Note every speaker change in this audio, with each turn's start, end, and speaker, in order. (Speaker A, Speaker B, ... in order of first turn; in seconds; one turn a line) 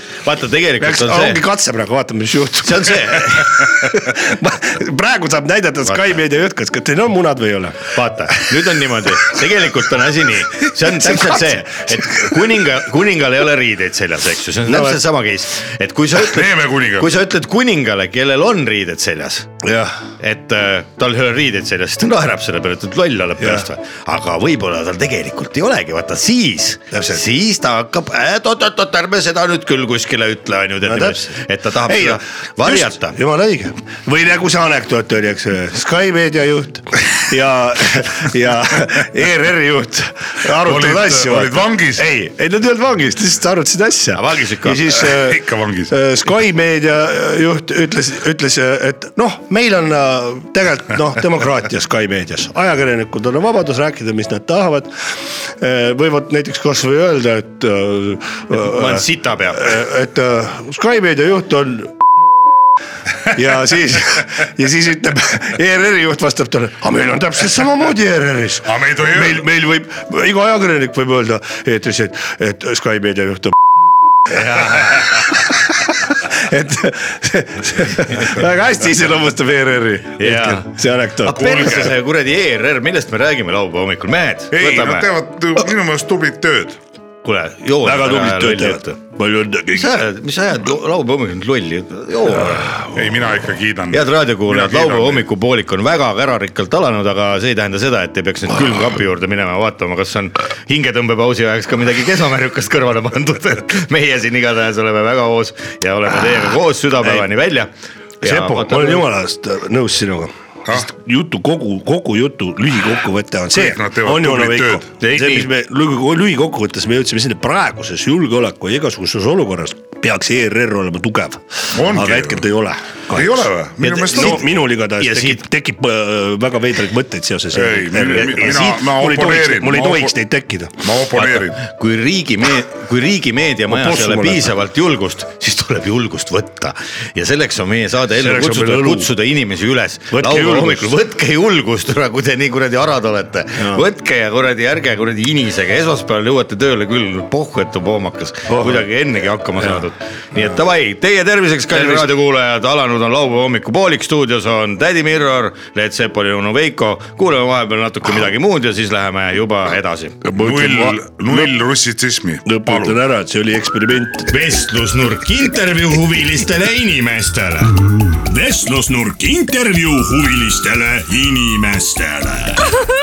Speaker A: 0.2-1.4
Speaker B: 0.8-7.9
Speaker A: 2.6-3.8
Speaker A: 7.9-19.5
Speaker B: 10.8-12.0
Speaker B: 14.7-15.0
Speaker C: 16.2-17.1
Speaker B: 19.6-20.0
Speaker A: 20.2-33.2
Speaker B: 23.4-23.7
Speaker B: 26.9-27.2
Speaker B: 30.9-54.9
Speaker C: 40.5-42.1
Speaker A: 44.1-45.1
Speaker C: 45.1-45.9
Speaker B: 55.6-61.9
Speaker A: 58.5-59.8
Speaker B: 63.3-73.6
Speaker C: 68.7-69.4
Speaker B: 74.3-81.7
Speaker A: 80.2-85.1
Speaker C: 81.3-81.9
Speaker C: 84.5-86.8
Speaker A: 87.2-89.0
Speaker B: 87.8-90.0
Speaker A: 89.7-92.9
Speaker B: 92.5-92.8
Speaker C: 92.9-95.2
Speaker A: 93.9-109.1
Speaker B: 107.0-107.3
Speaker B: 108.2-123.5
Speaker C: 113.5-114.8
Speaker A: 115.0-115.5
Speaker C: 121.7-122.5
Speaker C: 123.1-124.5
Speaker A: 123.8-124.4
Speaker B: 124.1-130.8
Speaker A: 125.0-125.4
Speaker C: 127.5-130.1
Speaker C: 130.8-131.6
Speaker A: 131.2-160.2
Speaker B: 133.7-134.5
Speaker B: 138.2-139.1
Speaker B: 140.1-140.9
Speaker B: 143.6-143.9
Speaker B: 148.5-148.9
Speaker B: 151.7-152.1
Speaker B: 160.2-161.5
Speaker C: 160.3-163.0
Speaker B: 162.4-164.4
Speaker A: 164.3-167.8
Speaker D: 168.2-172.8